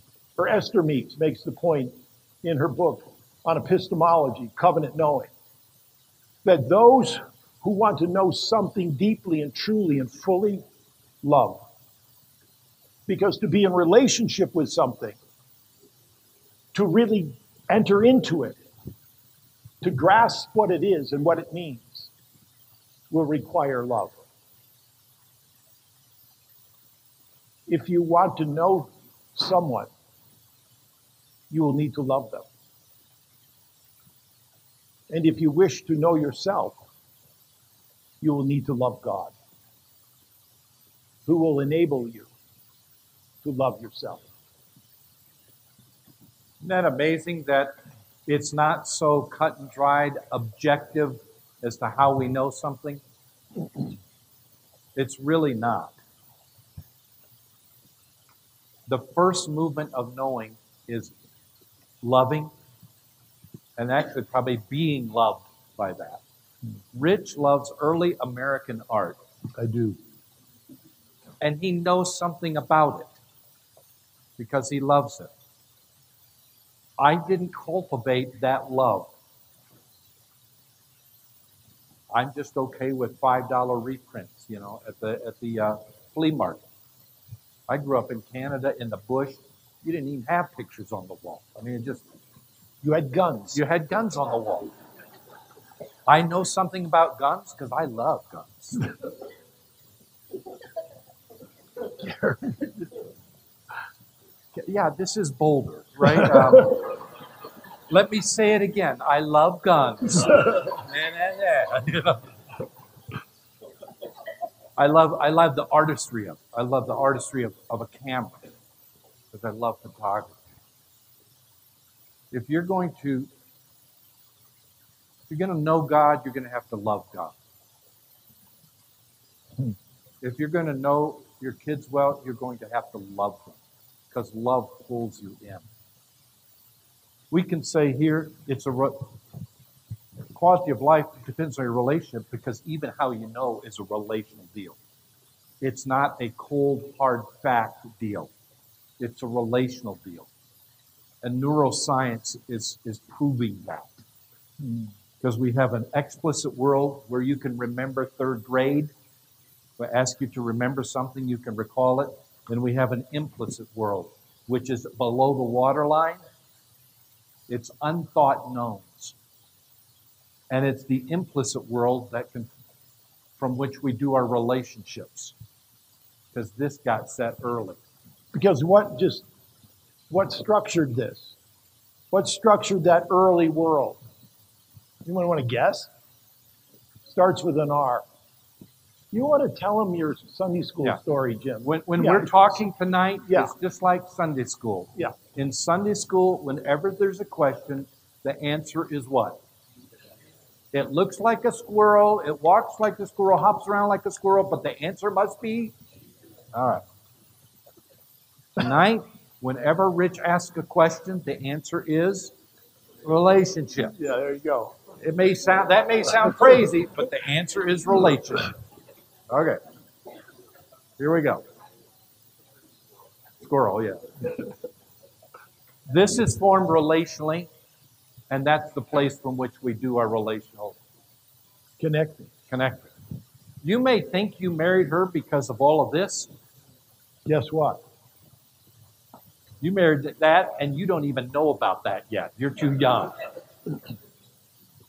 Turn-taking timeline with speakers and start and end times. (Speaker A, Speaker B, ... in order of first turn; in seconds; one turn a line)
Speaker A: 0.4-5.3
Speaker A: 6.4-10.6
Speaker A: 11.2-11.6
Speaker A: 13.1-15.2
Speaker A: 16.7-18.6
Speaker A: 19.8-22.1
Speaker A: 23.1-24.2
Speaker A: 27.7-29.9
Speaker A: 31.5-32.5
Speaker A: 35.1-36.8
Speaker A: 38.2-39.3
Speaker A: 41.3-42.3
Speaker A: 43.4-44.2
Speaker B: 46.6-47.7
Speaker B: 48.3-53.0
Speaker B: 55.0-56.0
Speaker B: 58.9-61.1
Speaker B: 62.0-62.5
Speaker B: 63.8-66.2
Speaker B: 66.9-69.2
Speaker A: 69.5-70.0
Speaker B: 71.4-73.1
Speaker B: 74.4-75.3
Speaker B: 77.0-79.1
Speaker B: 82.1-86.6
Speaker B: 87.7-92.0
Speaker A: 92.8-93.6
Speaker B: 93.5-94.7
Speaker B: 96.1-98.9
Speaker A: 102.0-102.7
Speaker B: 104.5-107.0
Speaker B: 107.9-112.3
Speaker B: 114.8-118.5
Speaker B: 119.3-120.4
Speaker B: 122.3-123.3
Speaker B: 125.3-127.3
Speaker B: 130.2-133.6
Speaker B: 134.1-135.6
Speaker B: 137.3-139.2
Speaker B: 140.3-144.8
Speaker B: 145.6-148.3
Speaker B: 149.0-150.3
Speaker B: 151.2-153.9
Speaker A: 154.6-154.9
Speaker B: 155.2-158.9
Speaker B: 159.8-166.2
Speaker B: 167.5-169.1
Speaker B: 170.5-172.5
Speaker B: 173.4-175.3
Speaker B: 176.3-177.8
Speaker A: 178.3-179.2
Speaker A: 180.1-181.3
Speaker A: 182.1-184.0
Speaker A: 185.1-185.9
Speaker A: 187.1-188.0
Speaker A: 189.1-192.6
Speaker B: 191.6-199.4
Speaker B: 200.7-205.7
Speaker B: 206.5-206.8
Speaker B: 208.6-212.3
Speaker B: 213.0-213.9
Speaker A: 214.0-214.7
Speaker B: 215.0-218.5
Speaker B: 219.3-219.6
Speaker B: 221.0-221.4
Speaker B: 223.4-224.3
Speaker B: 225.9-227.5
Speaker B: 228.3-230.8
Speaker A: 231.8-232.3
Speaker B: 232.5-232.9
Speaker B: 233.6-236.3
Speaker A: 237.3-237.8
Speaker B: 239.6-243.3